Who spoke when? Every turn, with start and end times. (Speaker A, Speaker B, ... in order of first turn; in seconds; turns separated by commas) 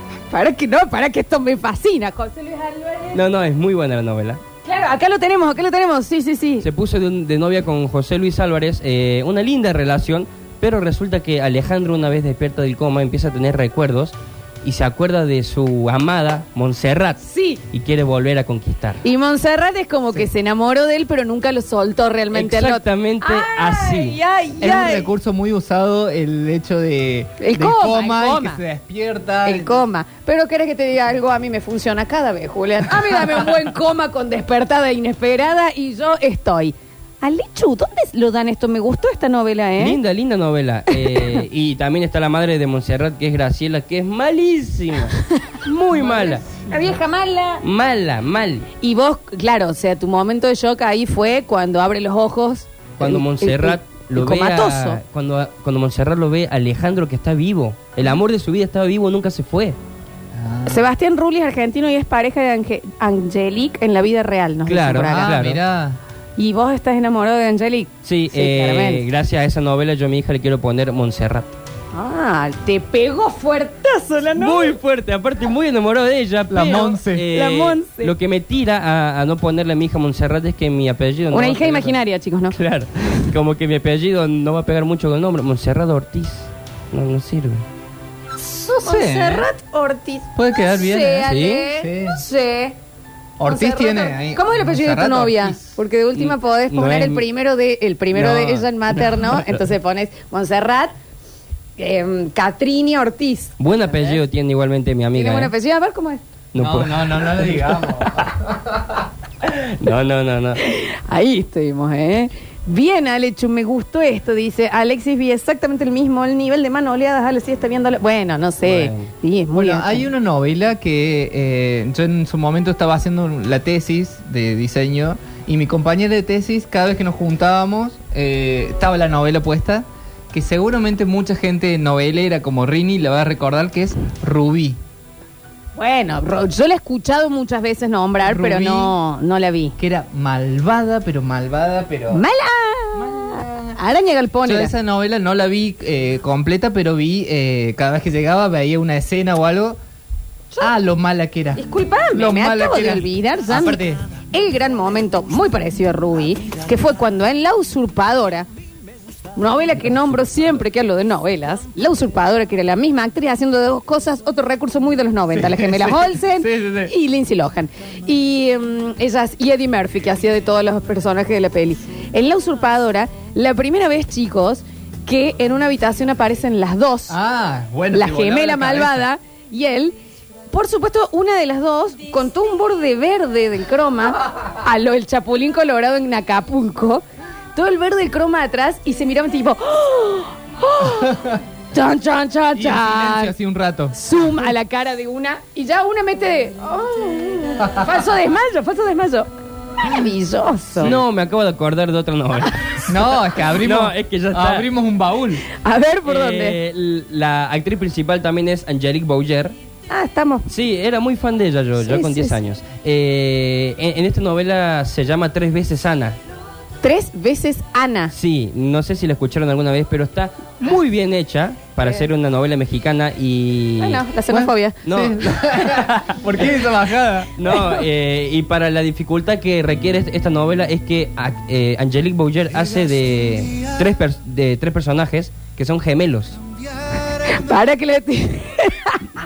Speaker A: 0.3-3.2, Speaker B: 3.1-4.4, Speaker A: 4.6-6.7, Speaker B: 6.6-19.0, Speaker A: 17.2-17.6, Speaker A: 19.0-25.1, Speaker B: 22.3-24.2, Speaker C: 24.6-29.8, Speaker A: 27.4-28.6, Speaker A: 29.4-40.0, Speaker B: 39.8-46.4, Speaker A: 40.9-41.4, Speaker A: 46.0-47.6, Speaker B: 47.6-48.7, Speaker A: 48.8-55.0, Speaker B: 53.0-59.8, Speaker C: 60.3-60.9, Speaker A: 60.7-65.3, Speaker B: 64.7-65.6, Speaker C: 65.1-66.0, Speaker A: 66.4-69.0, Speaker B: 68.0-71.6, Speaker A: 71.9-74.8, Speaker B: 74.3-82.0, Speaker C: 76.5-77.2, Speaker A: 77.3-78.1, Speaker A: 81.3-82.5, Speaker B: 82.5-87.6, Speaker A: 88.4-92.8, Speaker C: 88.8-89.5, Speaker C: 90.3-92.2, Speaker B: 91.3-91.6, Speaker C: 93.4-95.7, Speaker A: 93.5-100.9, Speaker B: 96.1-97.2, Speaker B: 98.1-98.7, Speaker A: 101.8-104.2, Speaker B: 103.6-105.5, Speaker A: 105.1-106.2, Speaker B: 106.5-107.6, Speaker C: 106.5-108.7, Speaker B: 109.4-110.6, Speaker A: 110.6-120.1, Speaker B: 118.6-119.1, Speaker C: 119.5-134.8, Speaker A: 135.8-139.8, Speaker C: 138.2-138.9, Speaker C: 139.8-142.2, Speaker A: 142.1-144.7, Speaker C: 142.9-143.8, Speaker C: 144.4-149.8, Speaker C: 150.6-154.0, Speaker A: 151.6-153.8, Speaker A: 154.3-158.5, Speaker A: 159.3-177.2, Speaker C: 165.3-166.9, Speaker C: 177.1-179.0, Speaker A: 177.9-179.9, Speaker A: 180.5-187.0, Speaker A: 187.5-193.3, Speaker C: 191.0-191.4, Speaker C: 192.5-194.4, Speaker A: 193.9-199.3, Speaker C: 197.6-197.9, Speaker A: 199.8-200.9, Speaker B: 200.8-202.8, Speaker C: 202.9-205.4, Speaker B: 203.5-204.7, Speaker A: 205.5-206.6, Speaker B: 206.0-209.5, Speaker A: 209.9-210.5, Speaker B: 210.5-216.2, Speaker A: 211.8-212.4, Speaker A: 216.8-218.1, Speaker B: 218.1-224.0, Speaker A: 223.8-224.8, Speaker C: 224.3-227.3, Speaker B: 224.8-226.2, Speaker B: 227.4-236.4, Speaker A: 237.2-239.0